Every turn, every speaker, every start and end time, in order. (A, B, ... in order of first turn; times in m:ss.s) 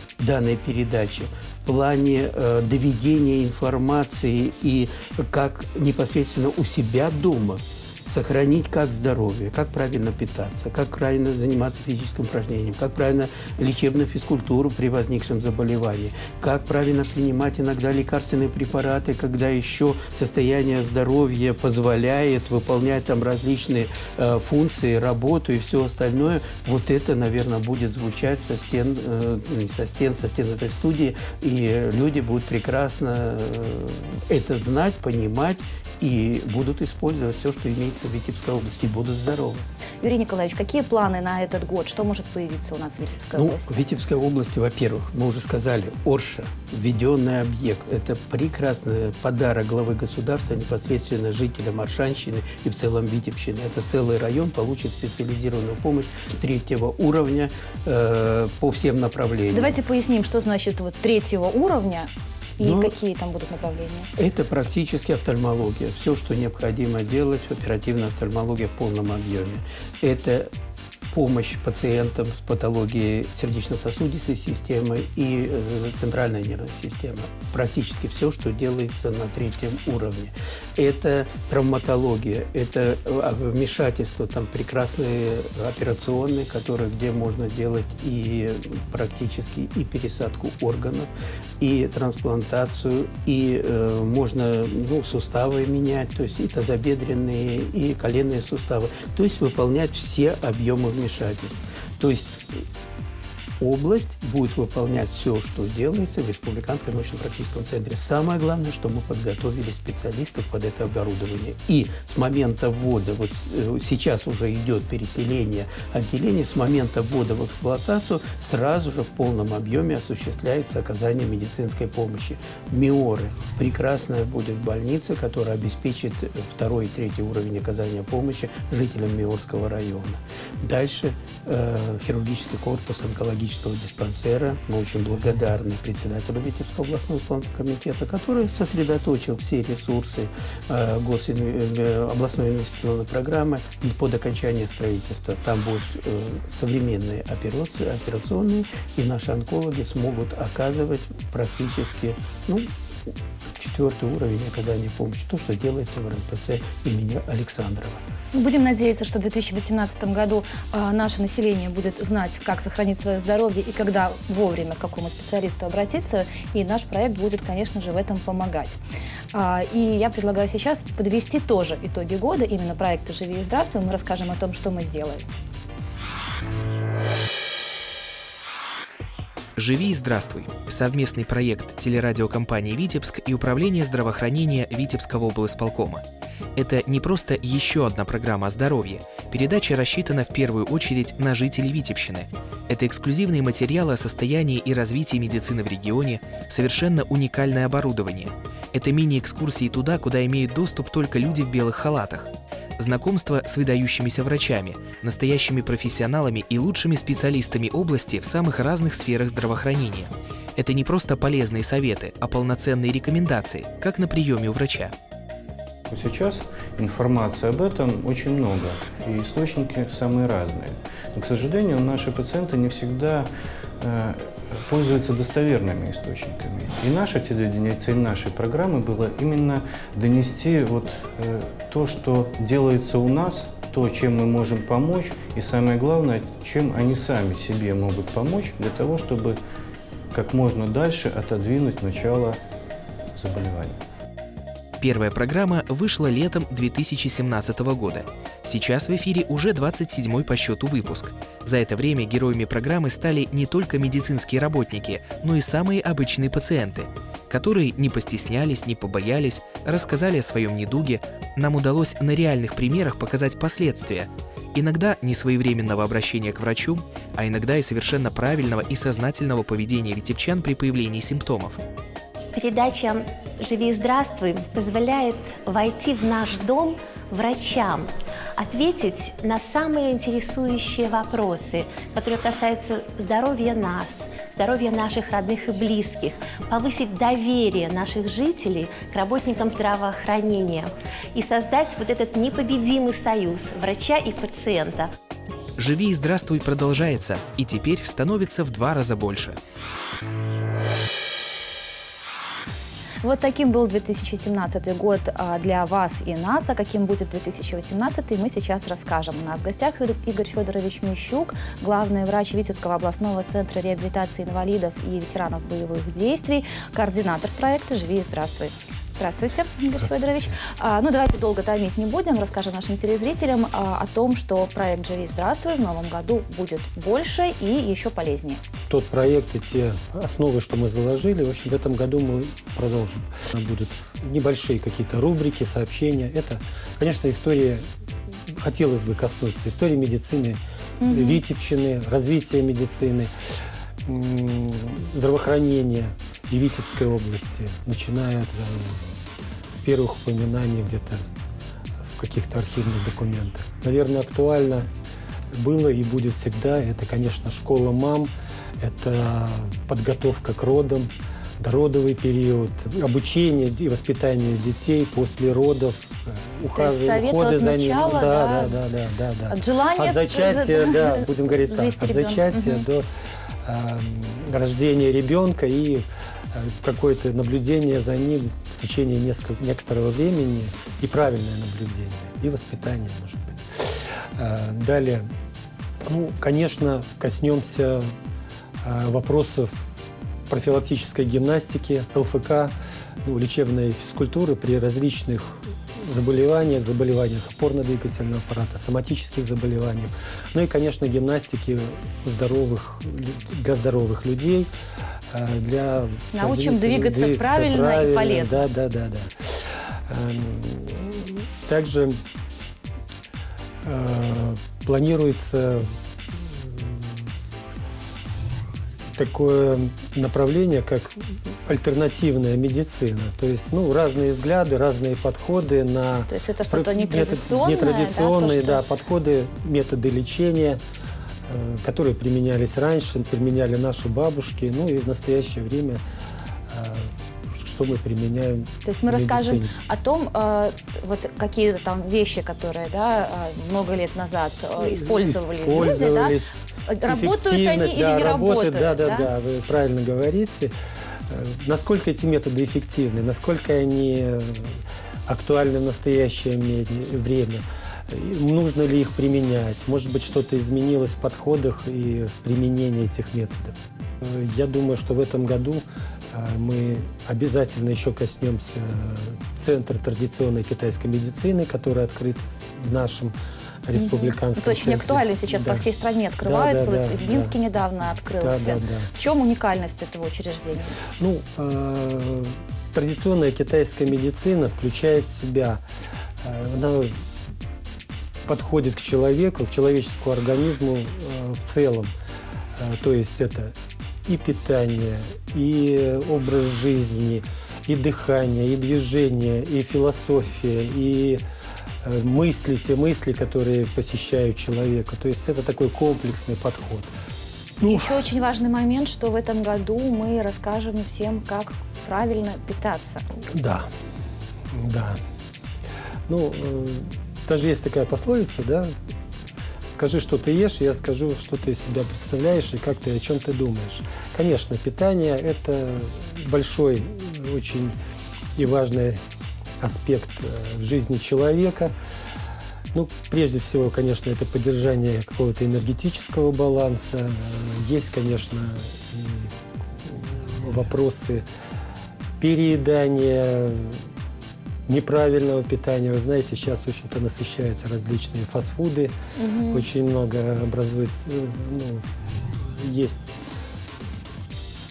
0:00.2-0:39.6 A
0:40.0-0:43.8 B
0:43.4-0:59.7 A
0:59.5-1:04.1 B
1:02.6-1:02.9 A
1:04.2-1:10.5 A
1:11.1-1:42.6 A
1:43.6-2:38.0 A
2:38.3-2:48.8 B
2:49.3-2:55.2 B
2:59.6-3:06.0 C
3:06.6-3:34.9 C
3:35.9-3:43.3 D
3:43.8-3:59.4 D
4:00.1-4:02.4 D
4:03.1-4:03.8 D
4:04.8-4:31.6 C
4:32.3-4:54.9 E
4:55.6-4:59.4 C
5:03.0-5:28.4 B
5:19.8-5:20.3 F
5:28.7-5:37.6 F
5:38.3-5:43.1 F
5:40.8-5:41.2 B
5:43.8-5:51.0 F
5:51.9-5:54.7 F
5:55.3-6:12.9 F
6:06.5-6:08.5 B
6:09.3-6:12.6 B
6:13.4-6:25.1 F
6:25.8-6:27.9 F
6:28.6-6:29.6 F
6:30.3-6:32.5 F
6:33.0-6:44.5 F
6:45.1-6:52.0 F
6:46.1-6:48.4 B
6:53.6-6:57.0 F
6:58.9-7:10.6 F
7:06.1-7:08.6 B
7:11.3-7:15.8 F
7:16.5-7:19.5 F
7:18.6-7:26.2 B
7:24.6-7:30.5 F
7:26.7-7:29.1 B
7:31.1-7:55.7 F
7:53.7-8:00.8 B
7:56.2-7:57.4 F
7:58.2-7:58.9 F
8:01.0-8:05.6 F
8:06.2-8:07.0 F
8:08.2-8:11.9 F
8:12.6-8:21.2 F
8:21.8-8:26.9 F
8:27.6-8:28.0 F
8:27.6-8:33.0 B
8:33.3-8:33.7 F
8:34.5-8:35.0 F
8:36.1-8:38.7 F
8:39.7-8:47.8 F
8:48.3-8:49.0 F
8:49.6-8:51.7 F
8:52.7-8:59.3 F
8:59.8-9:01.2 F
9:02.2-9:03.8 F
9:04.7-9:08.9 F
9:09.2-9:09.7 B
9:09.5-9:13.2 F